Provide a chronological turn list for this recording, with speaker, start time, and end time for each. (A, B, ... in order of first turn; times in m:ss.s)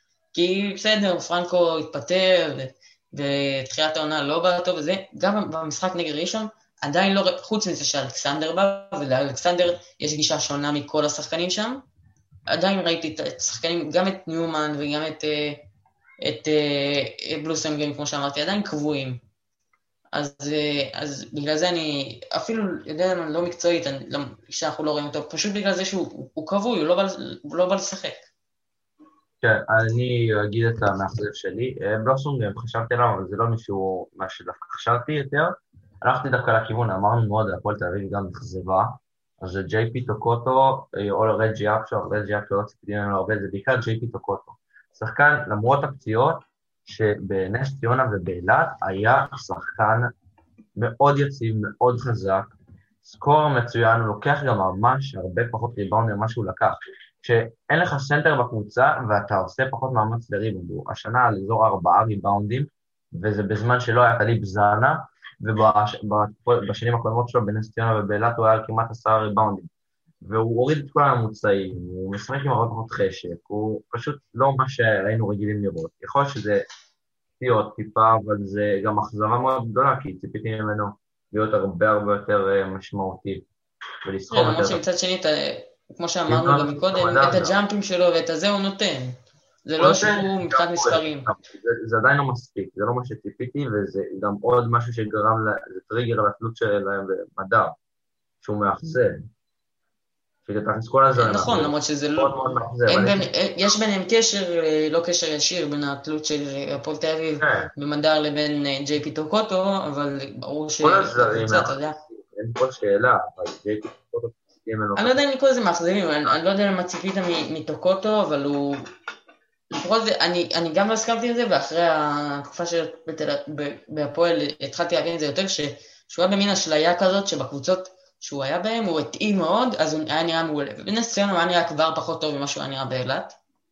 0:00.3-0:11.8 A
0:12.5-0:15.6 A
0:16.2-0:19.2 A
0:20.1-0:28.2 A
0:29.4-0:50.1 B
0:50.8-0:52.5 B
0:53.0-1:09.7 B
1:10.2-1:16.6 B
1:17.4-1:23.5 B
1:24.0-1:24.8 B
1:24.3-1:31.3 A
1:26.3-1:27.6 B
1:29.8-1:37.7 B
1:38.4-1:39.2 B
1:40.4-1:43.3 B
1:41.2-1:42.4 A
1:42.9-1:52.0 A
1:47.4-1:47.7 B
1:50.8-1:55.2 B
1:55.0-1:58.9 A
1:59.7-2:13.4 A